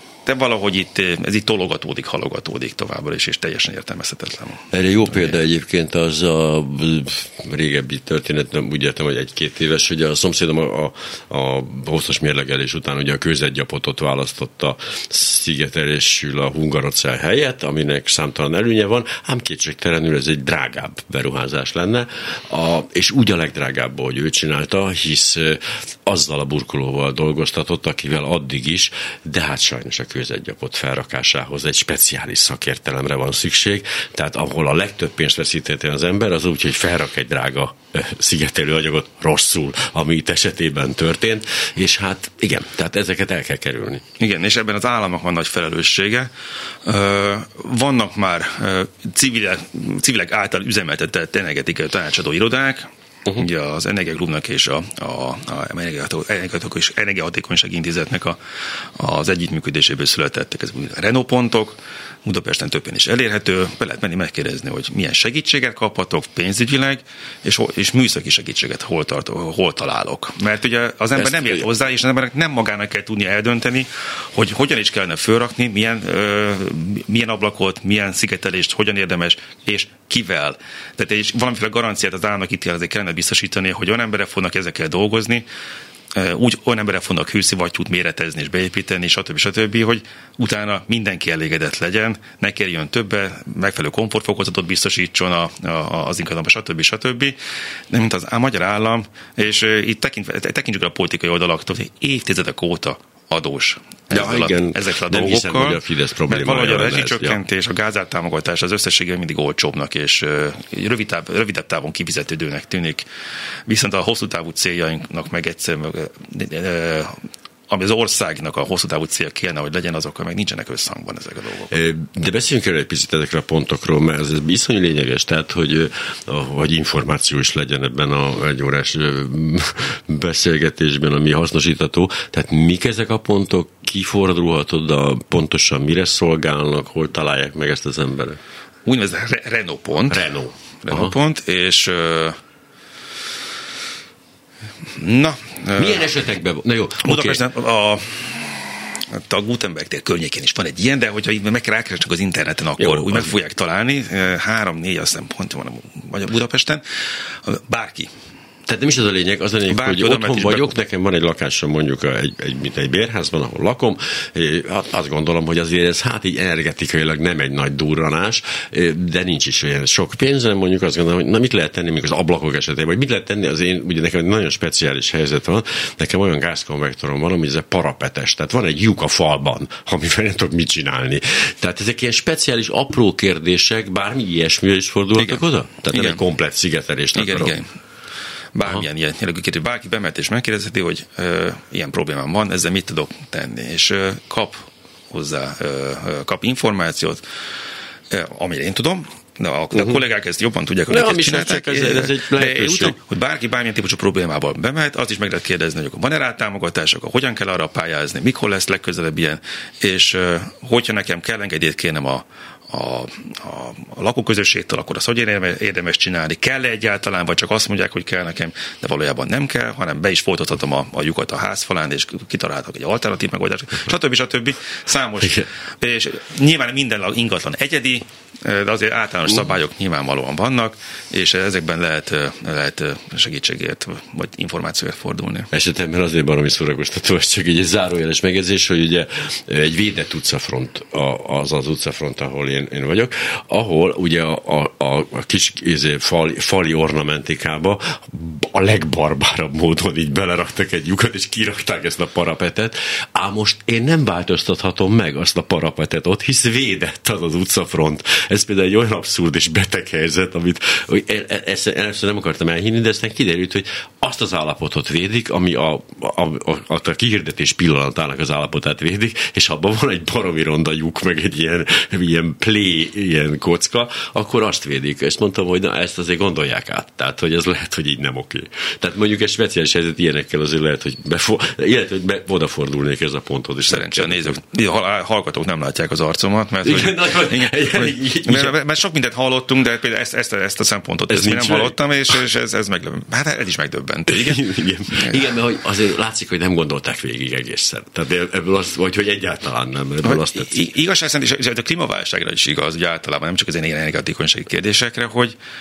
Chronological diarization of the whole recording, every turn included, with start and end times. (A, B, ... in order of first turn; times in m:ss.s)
0:00.2-0:05.3 A
0:04.7-0:44.0 B
0:44.2-0:46.3 A
0:46.8-1:25.4 A
1:11.2-1:11.6 B
1:26.1-1:37.4 A
1:37.9-1:53.1 A
1:44.1-1:47.4 B
1:53.7-1:57.1 A
1:57.7-2:01.7 A
2:01.7-2:18.4 B
2:18.8-2:20.3 A
2:20.1-2:21.1 B
2:20.8-2:22.4 A
2:24.9-2:26.1 A
2:25.8-2:27.4 B
2:27.0-2:36.8 A
2:32.8-2:33.3 B
2:37.4-2:38.1 A
2:38.7-3:07.5 B
2:39.7-2:40.7 A
3:05.2-3:06.2 A
3:07.1-3:07.7 A
3:08.5-3:17.2 A
3:18.1-3:55.5 A
3:20.9-3:23.0 B
3:55.5-4:44.4 B
4:43.6-4:55.3 A
4:46.6-4:48.5 B
4:51.1-4:51.8 B
4:54.1-5:00.6 B
5:00.0-5:05.4 A